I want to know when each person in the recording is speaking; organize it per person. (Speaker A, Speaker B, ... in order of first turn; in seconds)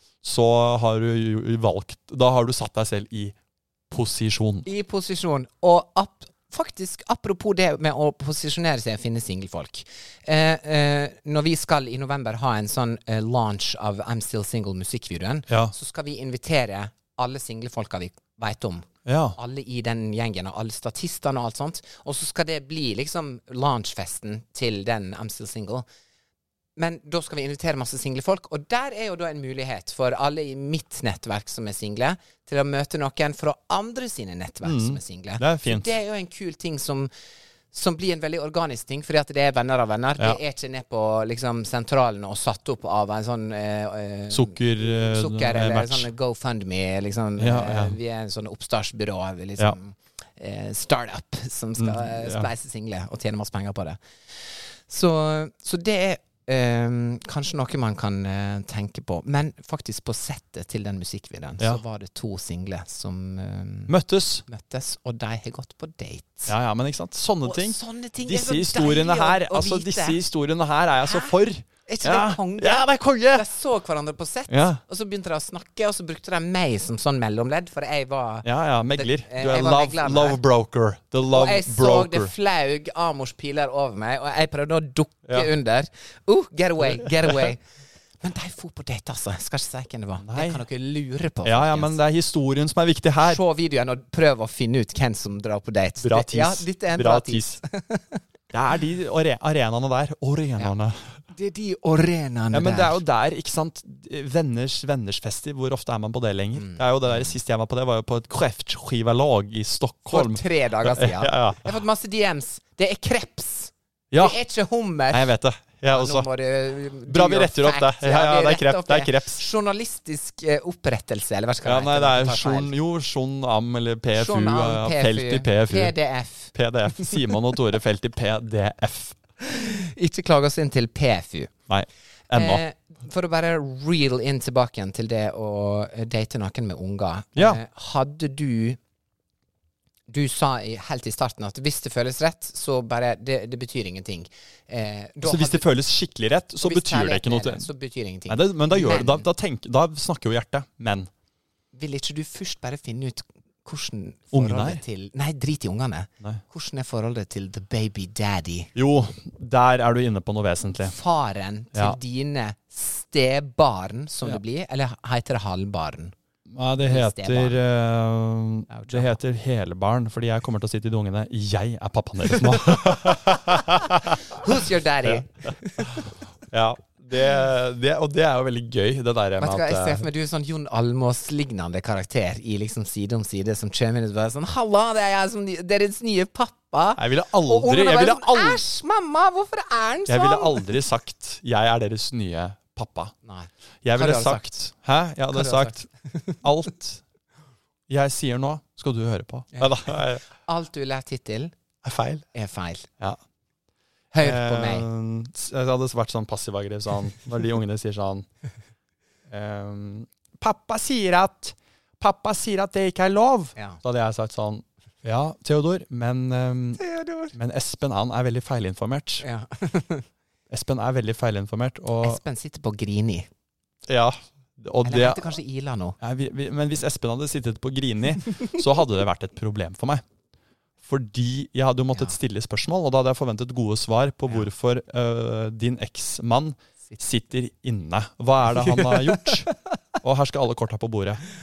Speaker A: 0.2-3.3, 3.9-4.7, 19.1-19.4, 34.6-35.9, 44.3-46.1, 47.4-48.0, 51.8-52.5, 63.9-64.4, 66.5-73.5, 74.5-74.8, 78.4-82.3, 86.8-87.5, 90.2-90.6, 91.4-93.4, 96.0-97.6, 98.5-101.2, 102.5-111.8, 114.1-114.4, 115.1-116.3, 117.1-119.4, 121.6-125.9, 126.5-129.2, 131.7-132.6, 137.3-137.6, 145.2-147.7, 148.3-151.1, 154.3-154.8, 158.8-160.9, 166.5-180.1, 186.9-188.6, 190.1-193.1, 193.8-195.9, 196.4-197.0, 197.9-200.2, 201.8-202.2, 204.2-208.3, 209.3-216.8, 217.3-219.2, 220.5-222.2, 223.9-225.2, 226.0-230.0, 230.8-239.5, 240.0-241.2
Speaker B: 4.7-25.8, 26.8-37.1, 37.7-63.9, 64.5-66.5, 67.4-70.2, 71.0-71.3, 71.9-80.4, 81.3-87.6, 88.2-92.0, 93.2-98.2, 101.3-103.0, 106.5-107.3, 110.1-115.3, 115.9-122.7, 124.1-127.2, 129.4-131.5, 132.3-138.8, 140.1-145.7, 146.6-149.2, 151.7-158.7, 160.8-166.1, 166.8-167.6, 168.7-169.1, 172.6-173.2, 174.3-176.2, 179.4-190.6, 193.2-194.5, 195.3-196.4, 199.5-201.5, 202.3-202.9, 204.1-204.8, 216.8-217.3, 219.2-220.1, 222.0-223.3, 224.8-225.9, 238.5-239.5